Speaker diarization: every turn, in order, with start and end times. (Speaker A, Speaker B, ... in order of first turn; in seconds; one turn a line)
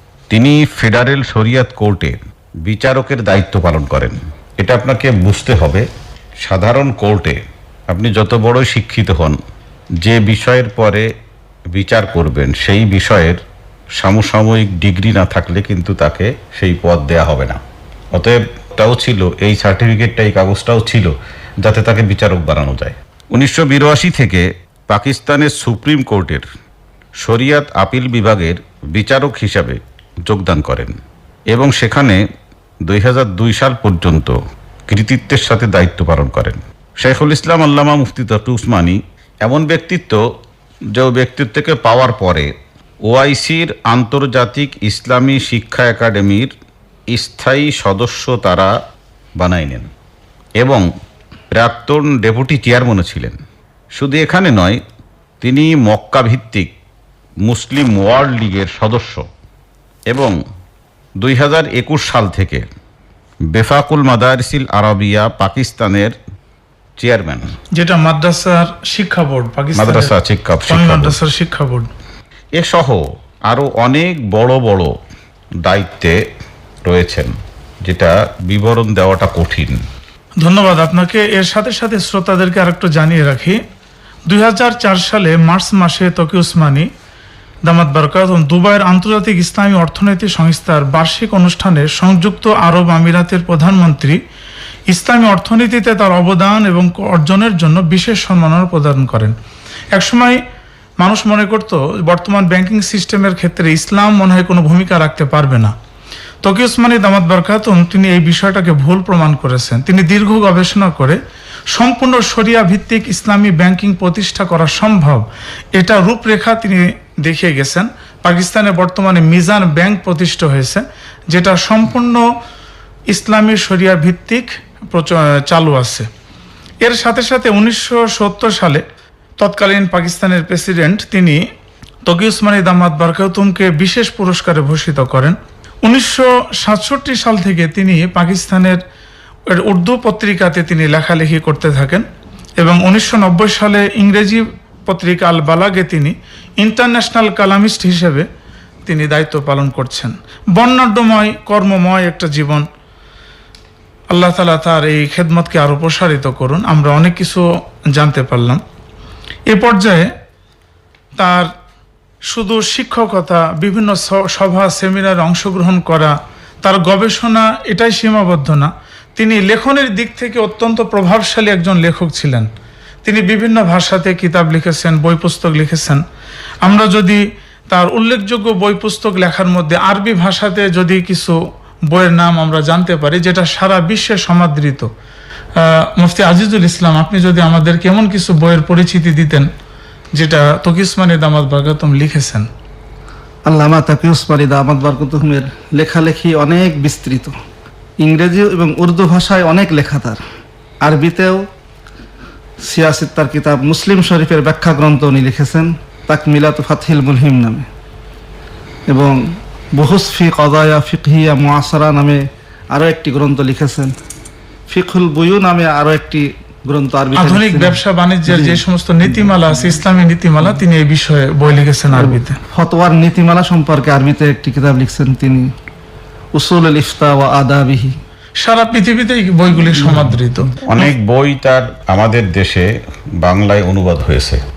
Speaker A: 0.3-5.8
Speaker A: 6.4-9.4
Speaker A: 10.0-11.1
Speaker A: 11.7-13.4
Speaker A: 14.0-17.6
Speaker A: 18.1-26.4
Speaker A: 27.2-30.9
Speaker A: 31.5-32.2
Speaker A: 32.8-34.3
Speaker A: 34.9-40.2
Speaker A: 40.9-42.5
Speaker A: 43.0-46.5
Speaker A: 47.1-48.7
Speaker A: 49.4-49.9
Speaker A: 50.6-50.9
Speaker A: 51.5-53.4
Speaker A: 54.0-54.8
Speaker A: 55.4-56.7
Speaker A: 57.4-59.3
Speaker A: 60.1-60.4
Speaker A: 61.2-62.6
Speaker A: 63.5-66.2
Speaker A: 67.0-67.5
Speaker B: 67.8-70.1
Speaker A: 69.7-71.2
Speaker B: 70.7-71.9
Speaker A: 72.5-75.0
Speaker A: 75.6-76.2
Speaker A: 76.8-77.3
Speaker A: 77.8-79.8
Speaker B: 80.4-83.6
Speaker B: 84.3-86.9
Speaker B: 87.6-94.2
Speaker B: 94.9-99.3
Speaker B: 99.9-100.4
Speaker B: 101.0-105.7
Speaker B: 106.4-111.2
Speaker B: 111.7-122.2
Speaker B: 123.1-126.1
Speaker B: 126.8-128.8
Speaker B: 129.4-131.4
Speaker B: 132.1-138.8
Speaker B: 139.5-142.0
Speaker B: 142.6-148.2
Speaker B: 148.8-152.7
Speaker B: 154.1-158.6
Speaker B: 159.5-160.1
Speaker B: 161.2-161.5
Speaker B: 162.3-172.5
Speaker B: 173.0-176.0
Speaker B: 176.6-184.9
Speaker B: 185.6-189.5
Speaker B: 190.2-192.5
Speaker C: 193.4-197.3
Speaker C: 198.0-200.2
Speaker C: 200.8-201.4
Speaker C: 202.6-207.7
Speaker C: 208.9-213.9
Speaker C: 214.7-219.3
Speaker B: 217.1-222.4
Speaker C: 222.0-225.5
Speaker C: 226.3-228.0
Speaker B: 228.4-230.9
Speaker C: 229.8-230.1
Speaker A: 230.6-234.4